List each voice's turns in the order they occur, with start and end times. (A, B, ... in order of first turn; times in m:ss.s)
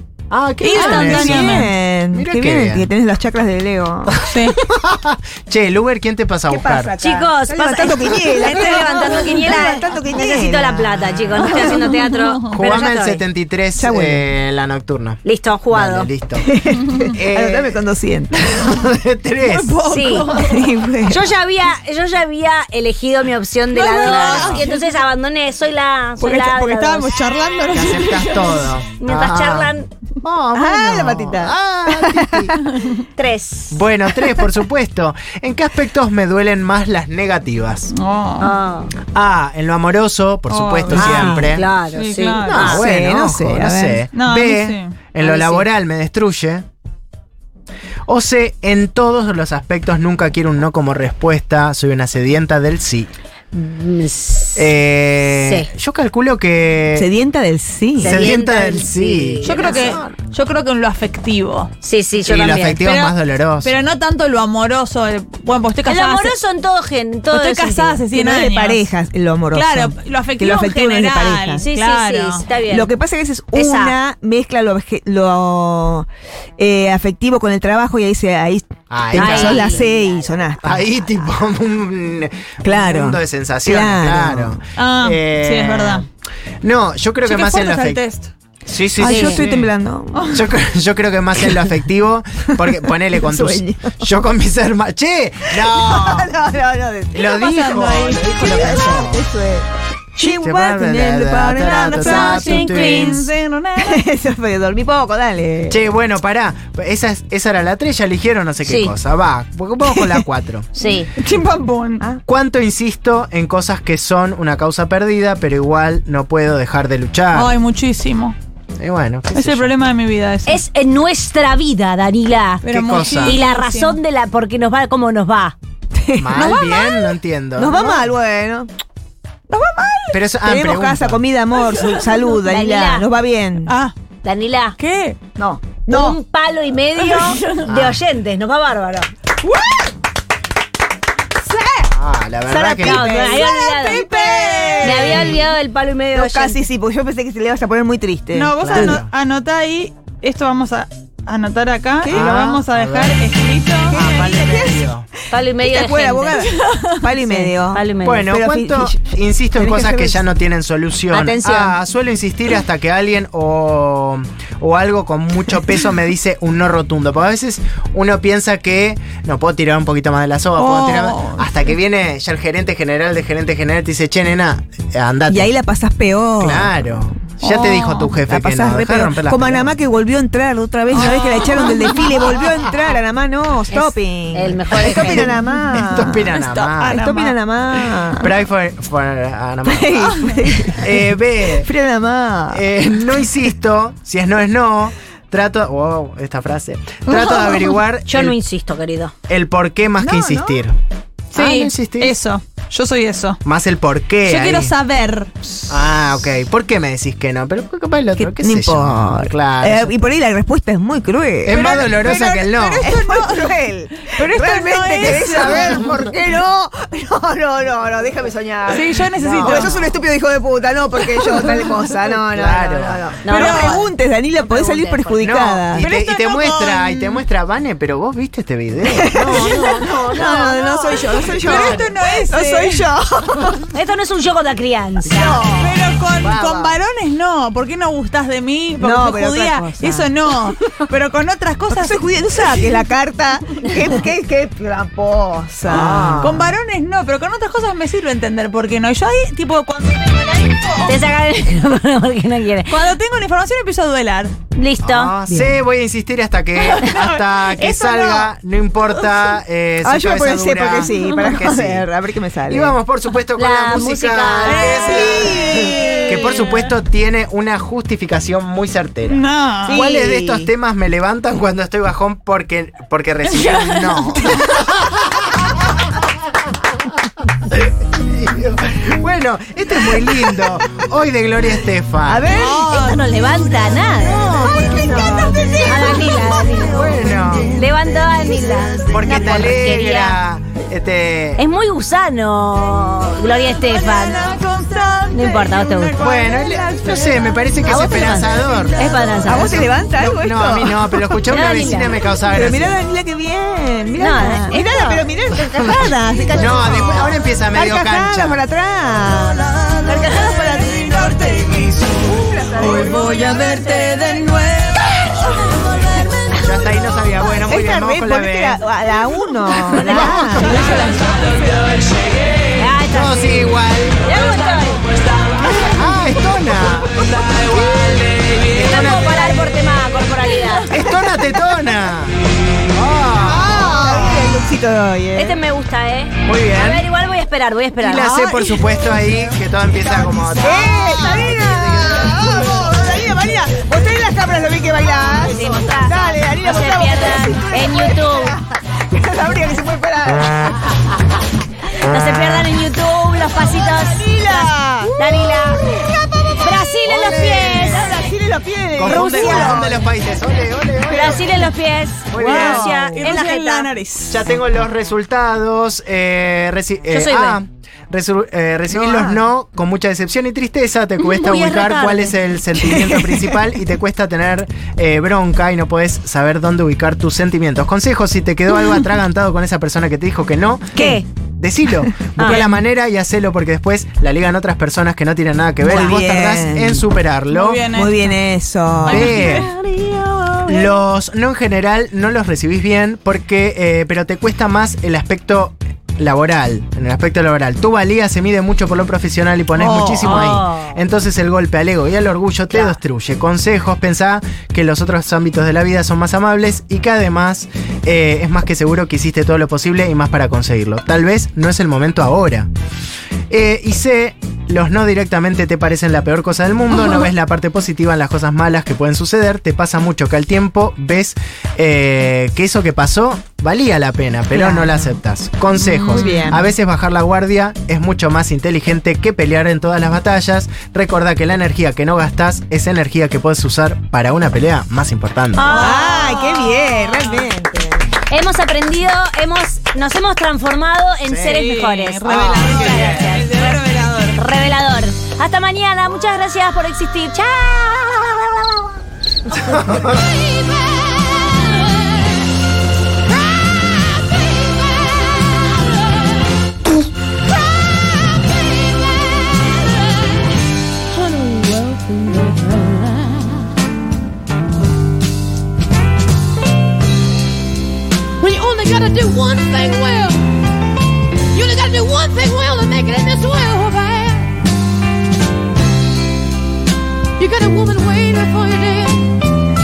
0:00.3-0:02.9 A
0:00.6-0:01.7 B
0:00.7-0:04.2 C
0:04.1-0:06.9 A
0:04.3-0:04.6 B
0:06.5-0:11.8 C
0:07.0-0:13.2 D
0:11.4-0:12.5 B
0:12.5-0:16.5 A
0:13.7-0:14.3 C
0:15.2-0:16.1 D
0:16.4-0:18.4 C
0:17.1-0:17.8 A
0:18.3-0:19.8 A
0:19.4-0:20.7 B
0:19.8-0:20.3 D
0:20.3-0:21.3 C
0:21.0-0:27.1 D
0:23.7-0:24.8 B
0:24.0-0:24.7 A
0:26.2-0:28.7 B
0:27.7-0:32.5 A
0:29.0-0:29.9 D
0:30.5-0:32.5 C
0:33.2-0:33.8 D
0:33.7-0:37.9 A
0:34.1-0:34.5 C
0:37.9-0:38.5 B
0:38.4-0:38.9 D
0:39.0-0:41.7 A
0:40.5-0:42.7 B
0:40.9-0:42.8 D
0:42.5-0:46.6 A
0:42.6-0:44.1 C
0:44.1-0:44.9 B
0:45.2-0:45.7 D
0:48.1-0:53.1 A
0:53.5-0:54.7 D
0:54.6-0:57.1 A
0:55.3-0:55.7 D
0:56.9-0:58.4 C
0:58.0-0:59.8 D
0:58.0-1:00.1 A
0:59.4-1:01.7 B
1:01.8-1:02.8 D
1:02.2-1:03.8 A
1:02.8-1:06.4 B
1:05.8-1:08.0 D
1:07.3-1:08.9 B
1:08.0-1:11.7 C
1:09.5-1:12.5 B
1:11.6-1:12.9 D
1:12.7-1:16.1 C
1:13.5-1:14.0 D
1:16.6-1:21.0 C
1:18.9-1:19.7 A
1:19.1-1:20.2 D
1:20.6-1:26.1 A
1:22.6-1:24.6 C
1:24.7-1:26.1 B
1:26.6-1:28.0 A
1:27.2-1:28.3 B
1:28.6-1:29.7 A
1:28.9-1:30.6 C
1:29.0-1:29.4 D
1:30.3-1:36.3 A
1:32.6-1:34.1 C
1:35.4-1:37.5 C
1:37.1-1:39.2 A
1:37.4-1:39.0 B
1:38.2-1:42.7 C
1:40.2-1:43.3 A
1:41.8-1:44.0 B
1:42.3-1:43.1 D
1:43.8-1:45.9 C
1:45.7-1:50.7 A
1:48.6-1:48.9 D
1:49.8-1:50.3 C
1:50.7-1:51.1 D
1:50.8-1:52.0 B
1:52.2-1:57.6 A
1:57.3-1:58.4 B
1:58.8-1:59.7 A
1:59.3-2:00.6 B
2:00.4-2:02.6 D
2:02.6-2:04.0 B
2:02.7-2:03.4 A
2:03.2-2:05.6 D
2:05.9-2:06.5 C
2:06.2-2:08.1 A
2:06.4-2:07.2 B
2:07.5-2:08.7 C
2:09.5-2:10.2 B
2:10.1-2:11.2 A
2:10.4-2:13.8 C
2:11.6-2:12.2 B
2:12.4-2:13.1 D
2:13.7-2:13.9 B
2:14.2-2:14.8 D
2:14.8-2:15.2 B
2:15.4-2:16.2 C
2:15.9-2:19.1 D
2:17.0-2:17.6 B
2:17.6-2:18.0 A
2:19.4-2:19.9 B
2:21.4-2:21.9 B
2:21.9-2:23.1 A
2:22.5-2:25.5 C
2:22.8-2:24.0 D
2:23.4-2:25.2 B
2:24.8-2:26.6 D
2:26.1-2:29.0 C
2:28.3-2:34.0 B
2:28.6-2:29.1 A
2:32.0-2:32.5 C
2:32.1-2:33.2 A
2:33.9-2:40.2 C
2:33.9-2:35.1 A
2:35.3-2:36.4 D
2:36.4-2:37.1 B
2:37.2-2:38.3 D
2:38.0-2:55.5 A
2:41.1-2:41.8 D
2:50.6-2:51.5 B
2:55.3-2:56.8 C
2:56.4-2:59.7 A
2:57.4-2:58.1 B
2:58.2-3:06.3 C
3:00.9-3:02.1 B
3:03.7-3:05.4 D
3:05.7-3:07.0 A
3:06.3-3:07.4 B
3:06.9-3:08.3 C
3:08.2-3:11.7 A
3:09.6-3:12.6 C
3:12.5-3:18.4 A
3:17.1-3:17.8 B
3:18.0-3:19.1 D
3:19.3-3:20.8 A
3:20.0-3:20.6 C
3:21.3-3:23.4 B
3:21.3-3:22.1 A
3:23.4-3:24.7 A
3:24.2-3:25.3 B
3:25.7-3:29.9 A
3:28.2-3:45.9 C
3:31.4-3:32.9 A
3:31.5-3:35.9 B
3:35.3-3:35.8 A
3:38.7-3:39.8 B
3:39.2-3:39.8 A
3:42.2-3:43.1 A
3:43.2-3:45.4 D
3:43.3-3:43.8 B
3:45.2-3:51.8 A
3:45.8-3:47.2 B
3:48.8-3:53.7 C
3:49.3-3:49.8 B
3:51.4-3:52.9 B
3:53.7-3:55.7 D
3:55.1-3:55.6 C
3:55.1-4:02.7 B
3:56.2-3:56.8 A
3:58.8-4:00.1 C
4:01.7-4:06.4 C
4:05.6-4:06.5 A
4:06.2-4:11.0 B
4:10.8-4:12.7 D
4:12.6-4:14.4 B
4:14.5-4:15.6 D
4:14.8-4:21.8 A
4:16.6-4:18.3 B
4:19.8-4:22.8 C
4:22.5-4:35.3 A
4:23.4-4:25.0 D
4:24.4-4:26.7 B
4:25.0-4:26.1 C
4:29.1-4:29.8 B
4:29.6-4:30.5 C
4:33.3-4:34.5 B
4:37.5-4:42.3 A
4:42.0-4:42.7 C
4:42.4-4:50.2 D
4:42.7-4:43.1 B
4:44.0-4:46.0 A
4:44.2-4:47.6 C
4:46.6-4:47.6 A
4:48.2-4:48.7 C
4:48.9-4:51.4 A
4:51.4-4:54.2 D
4:53.4-4:59.1 B
4:55.1-4:56.0 D
4:56.0-4:58.8 A
4:57.6-4:59.6 D
4:59.2-5:01.3 C
4:59.4-5:02.8 A
5:01.2-5:02.2 D
5:02.2-5:13.5 C
5:04.0-5:06.4 D
5:06.3-5:08.4 A
5:09.9-5:10.3 D
5:12.6-5:16.1 B
5:16.4-5:18.6 A
5:17.4-5:21.3 C
5:19.6-5:20.8 D
5:19.7-5:20.6 A
5:22.6-5:24.8 D
5:22.9-5:24.0 A
5:25.4-5:29.4 A
5:28.5-5:30.7 D
5:30.7-5:32.1 A
5:30.8-5:31.7 C
5:32.7-5:34.3 A
5:33.2-5:35.4 C
5:35.1-5:38.1 D
5:36.2-5:36.8 A
5:37.8-5:42.4 A
5:38.0-5:39.0 B
5:40.3-5:50.6 C
5:45.2-5:48.4 D
5:51.8-5:55.6 D
5:53.4-5:59.9 C
5:56.4-5:58.1 D
5:56.8-5:57.8 A
5:58.8-6:01.5 A
5:58.8-5:59.6 D
6:00.9-6:01.2 C
6:00.9-6:03.7 D
6:02.1-6:03.0 A
6:02.1-6:04.2 B
6:04.1-6:20.8 A
6:06.9-6:07.4 D
6:08.7-6:09.3 C
6:11.1-6:12.2 D
6:12.5-6:13.6 C
6:20.7-6:21.0 C
6:20.7-6:21.0 D
6:21.4-6:27.6 A
6:21.8-6:22.4 C
6:22.2-6:22.4 D
6:25.6-6:26.9 C
6:25.6-6:26.0 D
6:27.3-6:28.2 B
6:27.7-6:29.1 C
6:28.8-6:29.5 B
6:28.8-6:29.5 A
6:29.0-6:30.8 D
6:30.5-6:52.5 A
6:39.5-6:40.4 B
6:40.0-6:40.8 D
6:42.5-6:42.8 D
6:53.3-7:15.4 A
7:04.3-7:05.0 C
7:05.6-7:06.5 C
7:15.4-7:15.8 D
7:15.4-7:17.3 B
7:15.5-7:17.9 C
7:18.0-7:28.8 D
7:21.0-7:21.4 A
7:21.3-7:24.2 B
7:22.1-7:23.2 A
7:29.4-7:30.0 A
7:41.0-7:42.5 E
7:48.2-7:50.3 E
7:51.3-7:54.3 E
7:57.2-7:59.1 E